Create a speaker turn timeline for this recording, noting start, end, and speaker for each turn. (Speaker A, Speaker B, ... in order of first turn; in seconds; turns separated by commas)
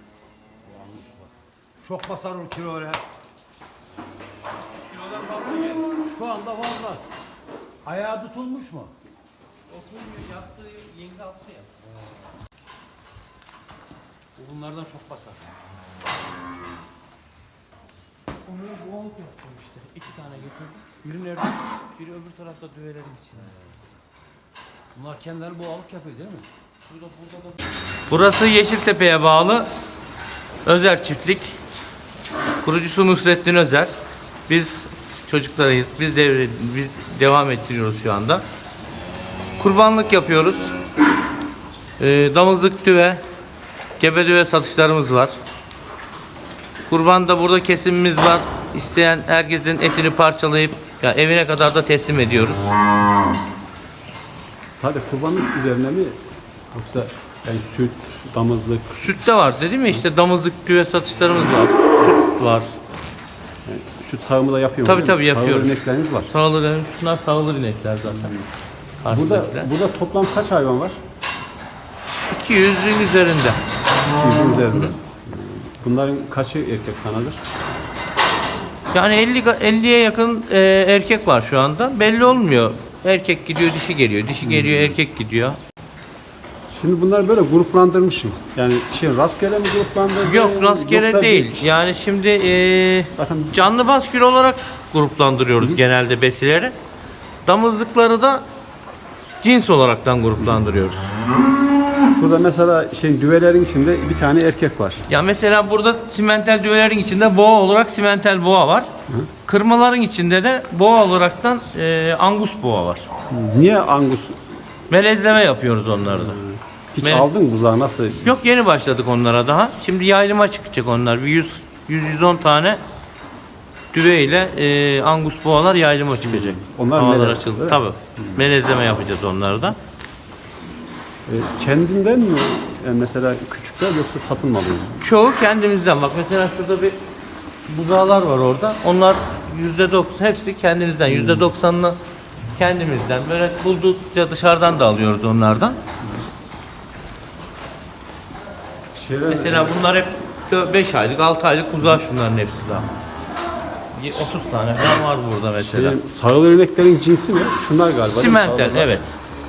Speaker A: 0.6-1.3, Speaker A: 1.8-3.0, Speaker B: 4.8-5.9, Speaker A: 5.9-7.0, Speaker A: 7.8-8.9, Speaker B: 9.7-11.7, Speaker A: 14.3-15.6, Speaker B: 18.5-20.8, Speaker A: 21.0-21.6, Speaker B: 22.0-23.5, Speaker A: 24.9-26.4, Speaker B: 26.9-27.5, Speaker B: 28.1-29.7, Speaker B: 30.6-31.6, Speaker B: 32.6-33.9, Speaker B: 34.5-38.4, Speaker B: 39.6-40.7, Speaker B: 42.0-43.2, Speaker B: 44.0-45.4, Speaker B: 46.9-52.6, Speaker C: 54.7-56.2, Speaker C: 56.7-59.2, Speaker B: 59.0-62.7, Speaker C: 63.6-66.3, Speaker B: 64.8-65.7, Speaker B: 66.3-68.3, Speaker C: 68.1-68.4, Speaker B: 69.0-69.7, Speaker C: 69.1-71.0, Speaker B: 72.3-73.6, Speaker C: 74.1-77.4, Speaker B: 78.9-85.6, Speaker C: 84.4-85.0, Speaker C: 86.7-91.7, Speaker B: 90.2-96.7, Speaker C: 93.2-93.6, Speaker B: 97.4-98.4, Speaker B: 99.4-101.1, Speaker C: 102.1-105.0, Speaker B: 105.1-108.9, Speaker B: 109.5-113.1, Speaker C: 113.3-114.4, Speaker B: 114.9-116.4, Speaker C: 116.1-118.4, Speaker B: 117.0-117.3, Speaker B: 118.2-122.8, Speaker B: 123.9-129.8, Speaker C: 126.2-128.4, Speaker C: 131.3-135.0, Speaker B: 135.0-137.0, Speaker B: 137.7-142.0, Speaker C: 141.1-141.5, Speaker B: 142.6-145.8, Speaker C: 148.9-149.7, Speaker B: 149.3-152.9, Speaker B: 153.9-156.0, Speaker C: 155.6-159.0, Speaker B: 158.1-159.1